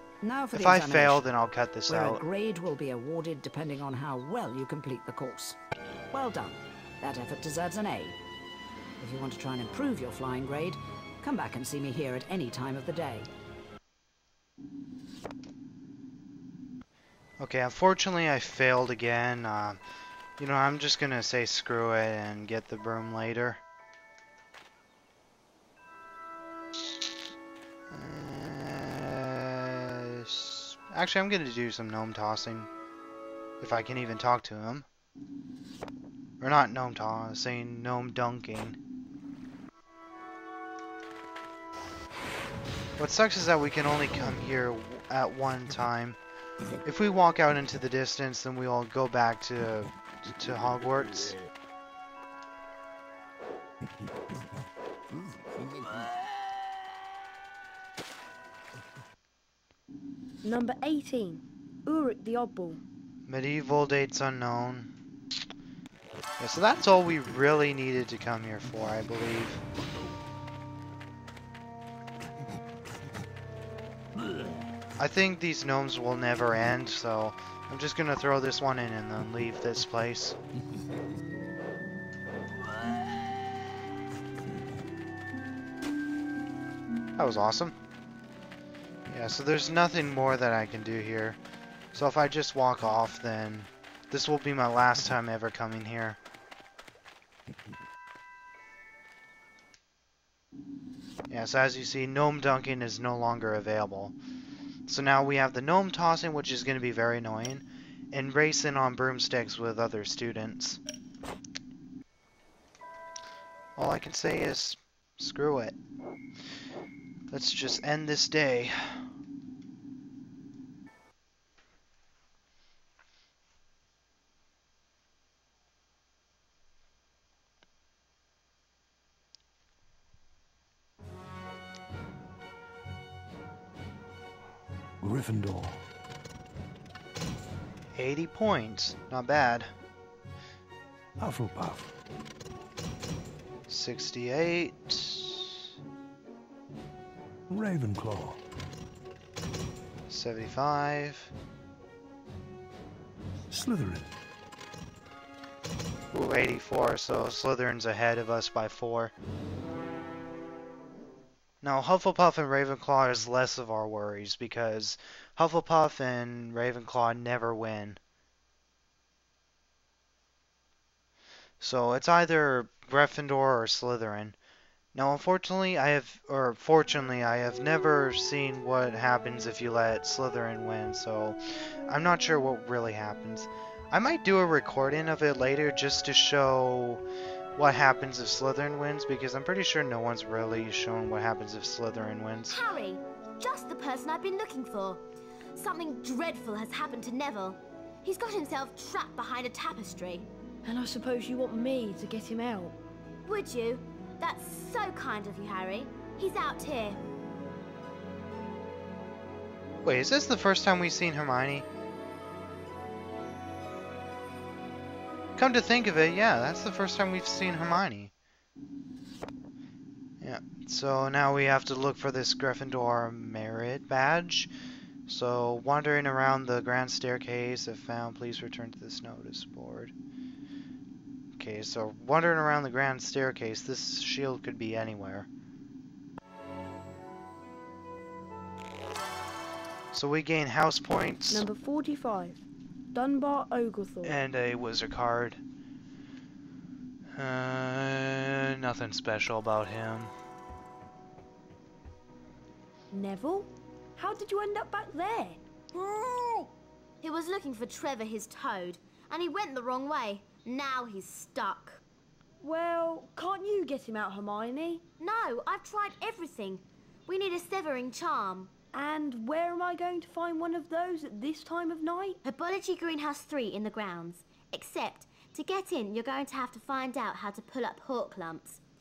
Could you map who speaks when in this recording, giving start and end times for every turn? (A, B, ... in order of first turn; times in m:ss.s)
0:00.2-0:01.3 A
0:00.5-0:02.2 B
0:01.9-0:05.6 A
0:06.1-0:08.2 A
0:09.0-0:13.3 A
0:17.4-0:19.8 B
0:20.4-0:23.6 B
0:27.9-0:32.7 B
0:33.6-0:34.9 B
0:36.4-0:38.8 B
0:43.0-0:46.2 B
0:46.8-0:51.4 B
1:00.4-1:02.8 C
1:03.3-1:04.9 B
1:06.4-1:09.6 B
1:15.0-1:20.4 B
1:27.2-1:27.8 B
1:29.1-1:31.4 B
1:31.9-1:36.2 B
1:41.3-1:44.2 B
1:44.9-1:50.8 B
1:53.8-1:55.8 B
1:57.3-1:59.0 B
2:15.0-2:15.8 D
2:18.0-2:19.7 B
2:21.2-2:21.9 D
2:23.7-2:25.7 B
2:27.5-2:28.4 D
2:30.1-2:31.3 B
2:33.5-2:34.1 D
2:36.1-2:39.1 B
2:41.6-2:48.0 B
2:51.6-2:54.4 B
2:54.9-3:07.0 B
3:07.6-3:12.6 B
3:12.5-3:15.0 E
3:15.6-3:20.3 E
3:20.6-3:22.8 C
3:23.2-3:27.0 E
3:29.8-3:31.7 B
3:35.4-3:38.1 B
3:40.2-3:44.5 B
3:45.1-3:49.9 B
3:51.4-3:55.3 B
3:59.9-4:01.4 B
4:01.3-4:04.2 C
4:04.0-4:05.4 B
4:07.2-4:10.1 B
4:12.9-4:15.4 C
4:15.7-4:21.8 E
4:22.4-4:24.8 C
4:25.0-4:28.5 E
4:28.7-4:32.2 C
4:32.2-4:38.6 E